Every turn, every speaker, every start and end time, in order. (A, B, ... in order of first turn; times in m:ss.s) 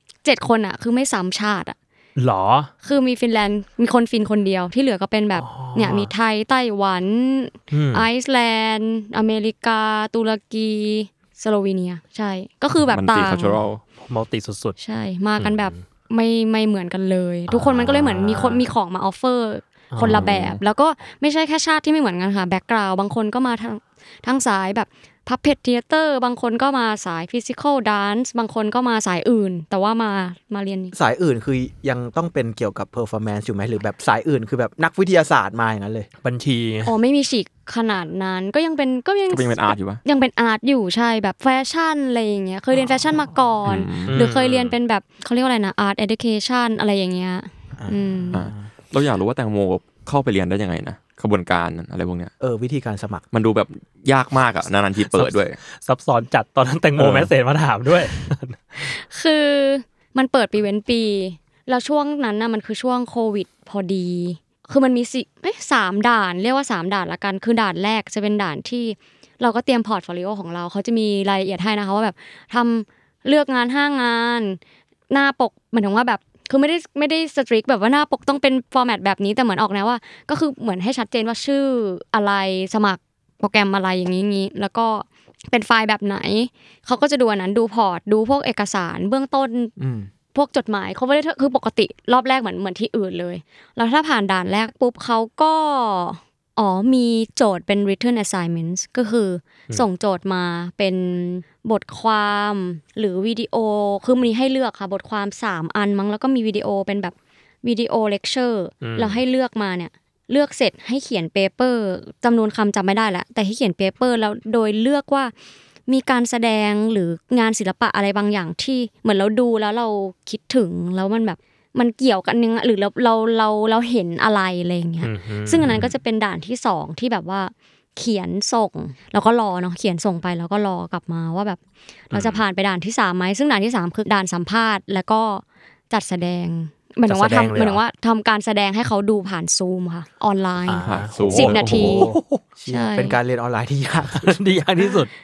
0:00.2-0:01.8 A
0:02.2-0:02.7 B
0:02.8-0:13.6 A
0:05.4-0:06.1 B
0:07.7-0:08.1 B
0:12.8-0:13.8 C
0:14.0-0:14.8 B
0:14.8-0:30.9 A
0:15.4-0:15.8 B
0:17.5-0:18.6 B
0:19.9-0:20.6 B
0:30.9-0:36.1 D
0:36.2-0:36.9 B
0:36.8-0:48.4 A
0:39.3-0:40.0 C
0:43.6-0:44.3 C
0:44.1-0:44.7 B
0:47.8-0:48.7 D
0:48.3-0:52.3 C
0:52.4-0:53.3 D
0:53.3-0:55.6 C
0:55.1-0:58.9 B
0:57.0-0:57.3 C
0:58.8-1:14.6 A
1:15.1-1:29.7 A
1:29.8-1:30.1 D
1:30.3-1:55.3 A
1:48.8-1:49.2 B
1:55.9-2:11.6 A
2:05.0-2:05.9 B
2:12.1-2:22.1 A
2:12.1-2:12.4 B
2:17.1-2:17.8 B
2:20.7-2:22.4 B
2:20.8-2:22.1 C
2:21.2-2:22.0 D
2:22.6-2:24.4 D
2:22.7-2:23.2 A
2:24.2-2:25.2 B